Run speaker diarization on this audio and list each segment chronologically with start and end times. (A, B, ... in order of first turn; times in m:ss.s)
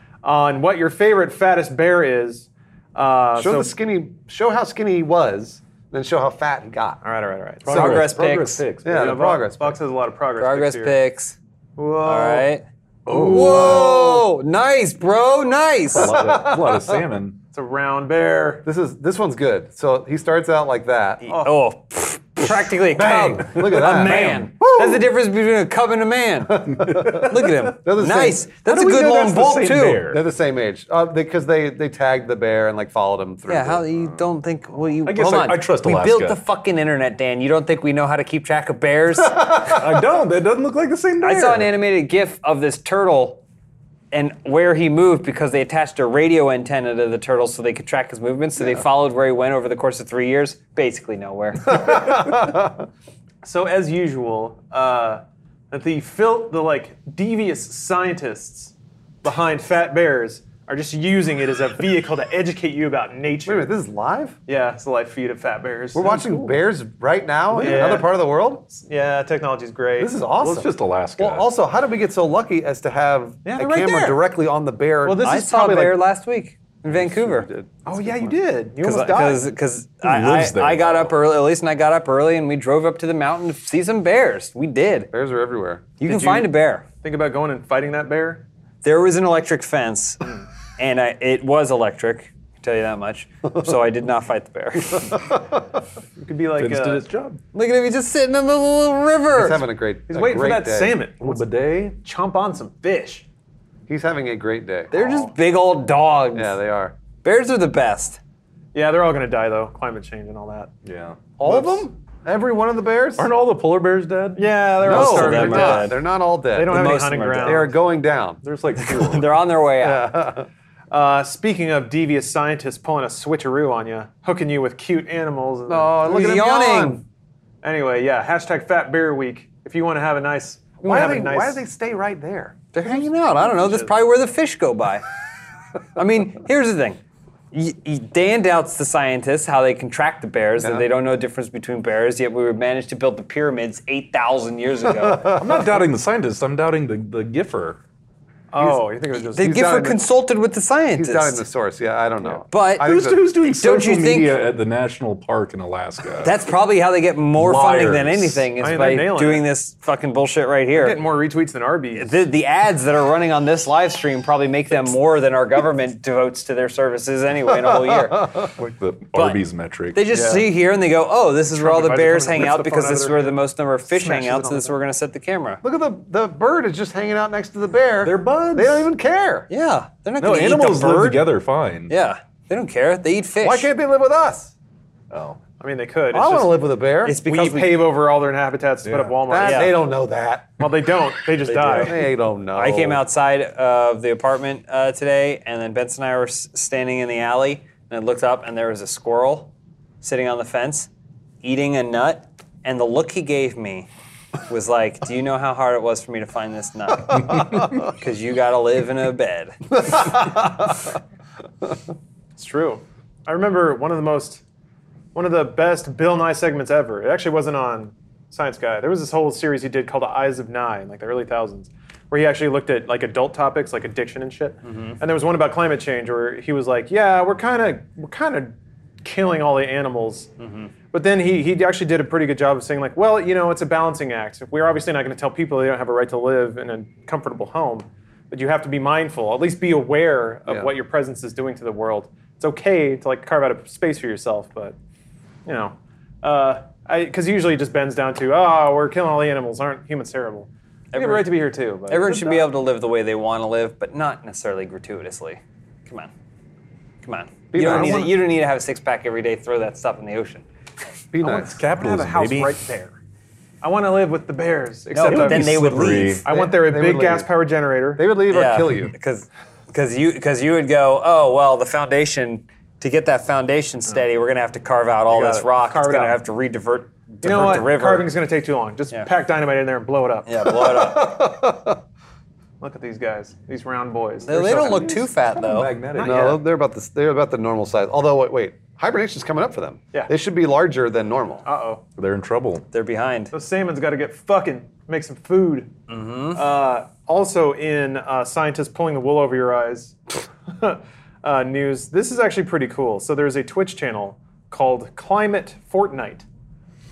0:00.2-0:03.7 A
0:03.4-0:07.0 B
0:07.0-0:08.1 A
0:07.6-0:09.4 C
0:07.7-0:08.6 D
0:08.8-0:09.8 B
0:08.9-0:11.0 A
0:10.4-0:11.4 D
0:11.8-0:12.5 A
0:12.0-0:16.4 D
0:13.1-0:14.0 C
0:13.1-0:14.4 B
0:15.9-0:17.4 C
0:16.0-0:17.0 B
0:17.5-0:18.6 A
0:18.6-0:21.3 B
0:21.2-0:30.1 D
0:21.3-0:21.5 A
0:22.5-0:25.0 B
0:23.8-0:24.4 A
0:26.5-0:28.5 B
0:26.9-0:27.3 C
0:28.7-0:30.2 C
0:30.1-0:34.1 B
0:33.5-0:39.8 D
0:35.0-0:36.4 C
0:39.7-0:41.7 C
0:41.2-0:43.4 D
0:44.1-0:52.3 D
0:51.8-0:52.7 B
0:53.4-1:03.7 A
1:03.5-1:04.4 B
1:04.5-1:06.6 A
1:05.9-1:08.6 B
1:07.6-1:10.2 A
1:10.0-1:15.4 B
1:10.4-1:11.5 C
1:13.4-1:14.2 A
1:15.0-1:16.0 A
1:15.2-1:17.5 D
1:16.9-1:18.4 B
1:17.8-1:19.5 A
1:18.8-1:25.1 D
1:20.0-1:21.2 C
1:25.1-1:26.0 B
1:26.0-1:26.8 D
1:26.0-1:28.5 A
1:28.8-1:35.2 D
1:36.2-1:37.1 A
1:36.6-1:37.4 C
1:37.5-1:39.6 D
1:39.3-1:41.0 B
1:40.1-1:43.3 A
1:41.2-1:42.0 C
1:43.9-1:44.9 B
1:44.9-1:46.6 D
1:46.3-1:47.0 B
1:47.2-1:48.2 D
1:48.7-1:50.7 A
1:50.8-1:51.8 C
1:51.4-1:53.3 B
1:51.5-1:51.7 A
1:53.2-1:54.5 C
1:54.4-1:55.9 A
1:54.8-1:58.4 B
1:54.8-1:56.0 D
1:56.5-1:57.7 A
1:56.6-1:57.7 D
1:58.4-1:59.4 C
1:58.8-2:00.1 D
1:59.8-2:00.5 B
2:00.9-2:06.1 A
2:05.7-2:07.0 B
2:06.0-2:07.0 D
2:07.6-2:11.6 A
2:10.8-2:13.0 B
2:12.7-2:15.0 D
2:13.4-2:13.9 A
2:16.0-2:17.0 D
2:17.5-2:25.4 D
2:20.6-2:20.8 B
2:24.9-2:25.8 B
2:25.3-2:27.8 C
2:28.5-2:29.7 A
2:29.3-2:31.4 D
2:29.4-2:30.0 B
2:31.0-2:33.3 B
2:32.5-2:34.4 D
2:32.8-2:36.3 C
2:36.2-2:41.0 D
2:37.4-2:38.4 C
2:38.6-2:39.5 A
2:40.8-2:42.2 A
2:42.0-2:48.5 D
2:48.6-2:50.0 C
2:49.1-2:49.4 D
2:49.9-2:55.6 D
2:50.1-2:50.5 A
2:51.5-2:54.7 A
2:55.6-2:59.5 B
2:58.0-2:58.9 C
2:59.5-3:01.3 D
3:00.2-3:01.9 C
3:01.9-3:03.7 D
3:03.4-3:04.5 B
3:05.1-3:05.4 C
3:05.6-3:09.8 A
3:06.1-3:07.2 B
3:07.0-3:07.8 D
3:08.8-3:09.1 C
3:09.3-3:10.6 B
3:09.4-3:09.8 D
3:10.6-3:12.0 A
3:11.5-3:13.0 B
3:12.6-3:20.9 D
3:21.4-3:23.9 D
3:24.5-3:30.2 D
3:29.9-3:30.7 B
3:32.4-3:34.4 A
3:35.2-3:50.3 A
3:44.7-3:45.0 D
3:50.4-3:50.7 D
3:50.9-4:04.8 A
4:05.5-4:12.5 A
4:10.9-4:11.3 D
4:11.9-4:16.1 D
4:17.0-4:20.4 D
4:17.5-4:18.1 B
4:17.6-4:18.1 A
4:21.1-4:21.5 B
4:21.2-4:23.0 A
4:21.4-4:22.5 C
4:23.6-4:25.7 A
4:24.9-4:26.3 D
4:25.1-4:26.3 C
4:26.2-4:28.0 A
4:26.3-4:27.3 B
4:28.0-4:28.9 B
4:28.3-4:38.1 D
4:35.1-4:36.2 A
4:37.2-4:40.6 A
4:40.3-4:41.3 D
4:40.6-4:41.8 B
4:42.6-4:45.0 A
4:44.2-4:45.8 D
4:44.5-4:46.3 C
4:46.0-4:46.4 A
4:46.0-4:51.4 B
4:51.4-4:51.8 A
4:52.0-4:52.7 C
4:52.7-4:53.3 D
4:53.3-4:55.7 A
4:55.9-4:56.4 D
4:56.3-5:06.2 A